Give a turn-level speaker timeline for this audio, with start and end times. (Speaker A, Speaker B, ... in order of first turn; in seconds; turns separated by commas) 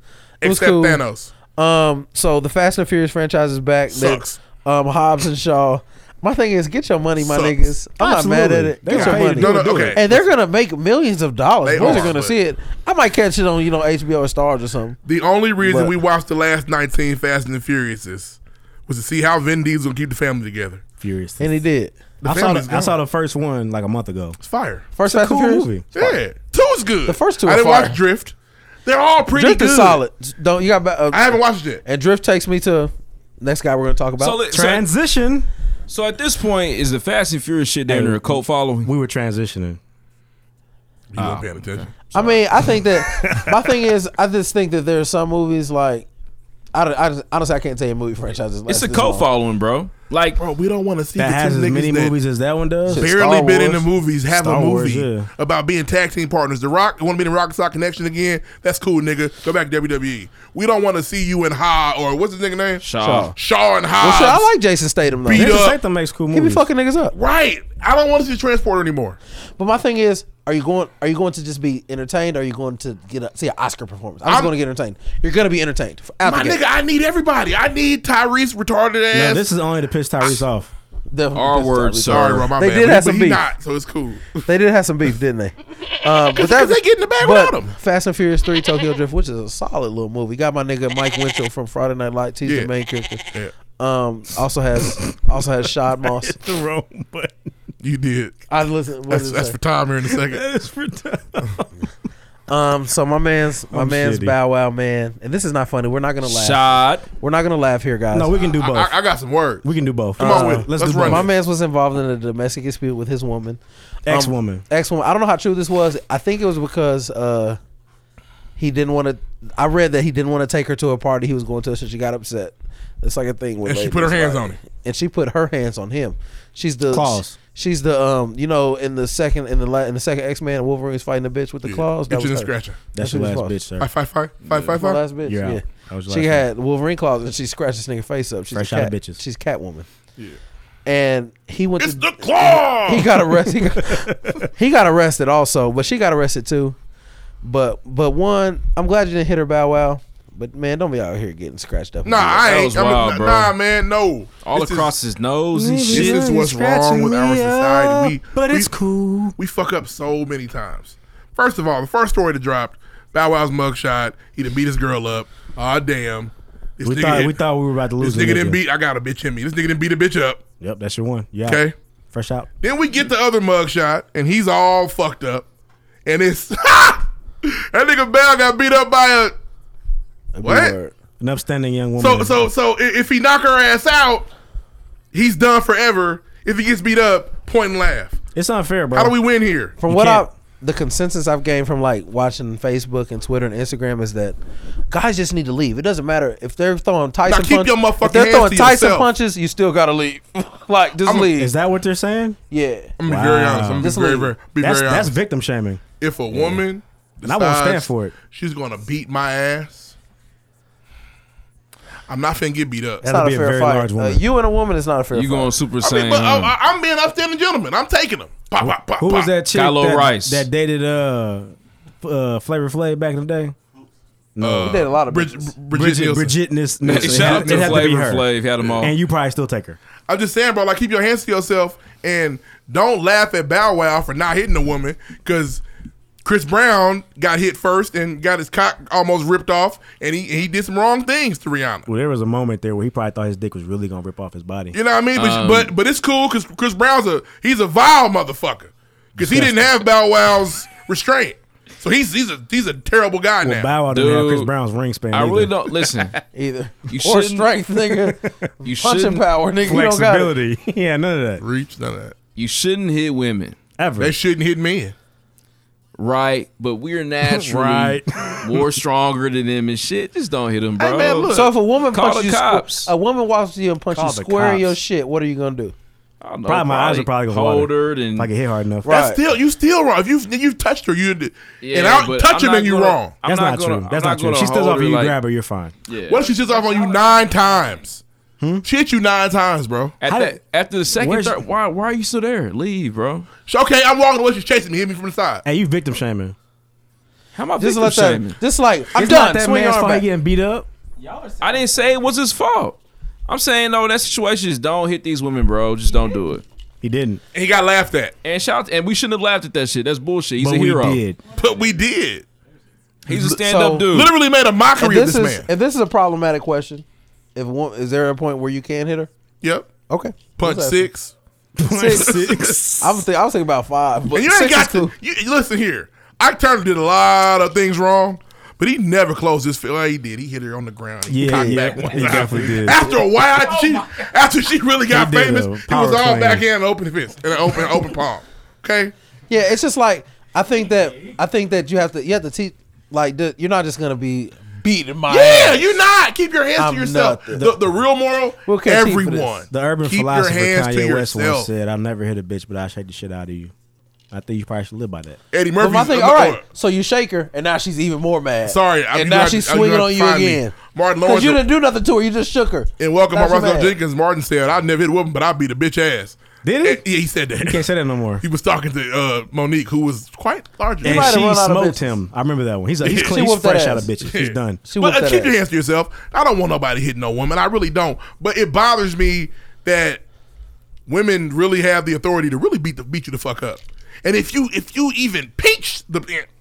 Speaker A: 0.4-1.3, Speaker B: 0.4-1.0, Speaker B: 1.6-15.0, Speaker A: 3.9-4.4, Speaker A: 7.2-7.7, Speaker C: 8.0-10.2, Speaker A: 8.9-10.1, Speaker A: 11.6-12.4, Speaker C: 11.8-12.1, Speaker A: 15.1-20.8, Speaker B: 15.6-15.9, Speaker C: 21.0-21.6, Speaker B: 21.4-22.1, Speaker A: 22.2-23.0, Speaker C: 22.2-24.4, Speaker A: 24.4-24.9, Speaker B: 24.9-25.7, Speaker C: 25.0-26.2, Speaker A: 25.9-30.0, Speaker B: 27.1-28.0, Speaker B: 29.3-34.4, Speaker A: 31.1-31.8, Speaker D: 34.2-34.9, Speaker C: 34.5-35.5, Speaker D: 35.9-38.9, Speaker C: 37.9-39.8, Speaker A: 41.1-42.4, Speaker B: 42.1-46.1, Speaker C: 43.1-43.5, Speaker B: 46.7-49.3, Speaker D: 48.7-50.4, Speaker A: 50.4-52.1, Speaker C: 51.2-53.1, Speaker B: 52.9-53.9, Speaker A: 53.0-64.5, Speaker C: 54.3-55.3, Speaker D: 62.8-63.3, Speaker B: 63.0-63.4, Speaker B: 64.0-65.7, Speaker A: 65.3-65.8, Speaker C: 65.3-66.7, Speaker B: 66.3-67.2, Speaker A: 67.1-69.2, Speaker B: 69.6-76.6, Speaker A: 74.3-74.5, Speaker A: 76.2-79.5, Speaker C: 79.1-80.7, Speaker B: 81.1-83.4, Speaker D: 81.3-82.5, Speaker A: 82.1-84.4, Speaker B: 84.5-96.4, Speaker A: 86.3-87.7, Speaker A: 92.5-92.7, Speaker C: 96.0-97.5, Speaker A: 97.8-98.4, Speaker B: 98.5-99.6, Speaker A: 99.1-100.4, Speaker C: 100.1-101.7, Speaker B: 102.5-108.3, Speaker C: 103.7-104.4, Speaker D: 106.2-107.1, Speaker C: 108.1-109.0, Speaker A: 108.5-111.3, Speaker C: 109.6-111.3, Speaker B: 110.2-117.6, Speaker C: 114.1-114.6, Speaker B: 118.6-133.6, Speaker A: 123.7-124.6, Speaker C: 126.9-127.4, Speaker A: 131.6-132.8, Speaker C: 132.9-133.9, Speaker A: 133.8-135.0, Speaker D: 134.4-134.8, Speaker B: 134.7-139.9, Speaker C: 135.2-136.4, Speaker C: 138.5-139.2, Speaker B: 140.9-146.8, Speaker A: 141.8-143.2, Speaker C: 143.8-144.4, Speaker B: 147.4-152.5, Speaker A: 152.0-154.9, Speaker D: 152.4-153.6, Speaker D: 154.4-156.3, Speaker C: 155.5-159.4, Speaker A: 155.9-158.7, Speaker A: 159.4-167.4, Speaker C: 166.8-168.6, Speaker A: 168.0-170.4, Speaker C: 170.6-171.6, Speaker A: 171.4-171.7, Speaker C: 172.1-172.5, Speaker A: 172.6-175.4, Speaker A: 176.1-179.4, Speaker B: 180.3-180.9, Speaker A: 180.4-180.7, Speaker C: 181.2-182.5, Speaker A: 182.0-184.3, Speaker A: 185.1-188.2, Speaker C: 188.3-189.2, Speaker A: 188.9-189.8, Speaker B: 189.8-194.4, Speaker C: 189.9-190.3, Speaker B: 194.9-201.5, Speaker A: 197.3-199.1, Speaker A: 201.1-201.3, Speaker C: 201.3-202.4, Speaker B: 202.5-202.9, Speaker A: 203.0-205.1, Speaker C: 203.0-203.9, Speaker B: 203.8-204.4, Speaker C: 204.6-206.6, Speaker A: 206.0-209.9, Speaker C: 207.2-208.2, Speaker A: 212.1-213.1, Speaker C: 213.0-214.2, Speaker B: 213.0-215.5, Speaker D: 215.1-216.5, Speaker A: 215.8-219.3, Speaker C: 218.6-223.6, Speaker D: 219.5-220.5, Speaker C: 224.4-224.9, Speaker A: 224.4-227.9, Speaker B: 224.6-225.5, Speaker C: 225.7-228.3, Speaker D: 226.8-228.9, Speaker A: 228.6-228.9, Speaker C: 228.8-229.8, Speaker A: 230.1-235.6, Speaker A: 236.2-241.9, Speaker C: 241.9-244.7, Speaker A: 244.7-253.7, Speaker D: 245.2-245.7, Speaker C: 249.2-249.7, Speaker C: 253.4-255.7, Speaker D: 253.9-254.5, Speaker D: 255.1-256.2, Speaker B: 256.3-260.3, Speaker D: 256.9-257.5, Speaker C: 258.1-258.5, Speaker D: 258.6-259.3, Speaker C: 259.6-261.4, Speaker A: 261.4-262.1, Speaker D: 262.4-263.6, Speaker C: 263.8-264.1, Speaker A: 264.0-264.9, Speaker D: 266.0-272.9, Speaker C: 267.2-268.6, Speaker A: 270.8-271.5, Speaker B: 271.3-275.7, Speaker C: 273.9-274.8, Speaker D: 276.2-278.3, Speaker C: 276.4-279.1, Speaker B: 278.9-279.2, Speaker A: 278.9-283.1, Speaker D: 281.6-285.2, Speaker C: 283.2-285.7, Speaker D: 285.9-286.3, Speaker A: 286.1-288.0, Speaker C: 288.4-288.6, Speaker A: 288.6-289.9, Speaker D: 290.0-293.3, Speaker C: 290.1-290.4, Speaker C: 290.9-291.4, Speaker A: 293.5-295.4, Speaker C: 295.4-296.4, Speaker D: 297.4-298.4, Speaker B: 297.6-300.1, Speaker C: 298.9-300.7, Speaker D: 301.4-306.4, Speaker C: 306.8-307.2, Speaker A: 307.3-308.1, Speaker D: 308.2-311.0, Speaker C: 310.4-311.2, Speaker A: 311.4-312.2, Speaker D: 313.1-314.1, Speaker A: 313.1-315.5, Speaker B: 313.4-313.9, Speaker B: 314.8-319.1, Speaker A: 319.4-319.7, Speaker B: 319.9-320.9, Speaker A: 320.4-321.1, Speaker C: 321.6-323.0, Speaker B: 321.6-324.9, Speaker A: 322.0-322.5, Speaker A: 324.1-338.9, Speaker C: 331.1-332.9, Speaker B: 331.2-331.7, Speaker C: 334.9-336.5, Speaker B: 339.3-345.7, Speaker A: 345.1-351.5, Speaker B: 346.6-347.6, Speaker B: 348.4-349.4, Speaker C: 349.5-353.5, Speaker C: 354.1-355.2, Speaker A: 355.3-356.4, Speaker B: 355.6-363.7, Speaker A: 358.4-361.4, Speaker A: 362.8-367.7, Speaker C: 366.4-366.8, Speaker C: 367.4-368.2, Speaker A: 368.2-371.2, Speaker B: 370.8-371.9, Speaker C: 370.8-374.6, Speaker A: 372.8-373.3, Speaker B: 373.0-373.9, Speaker A: 374.1-380.0, Speaker B: 374.6-375.4, Speaker A: 380.9-386.3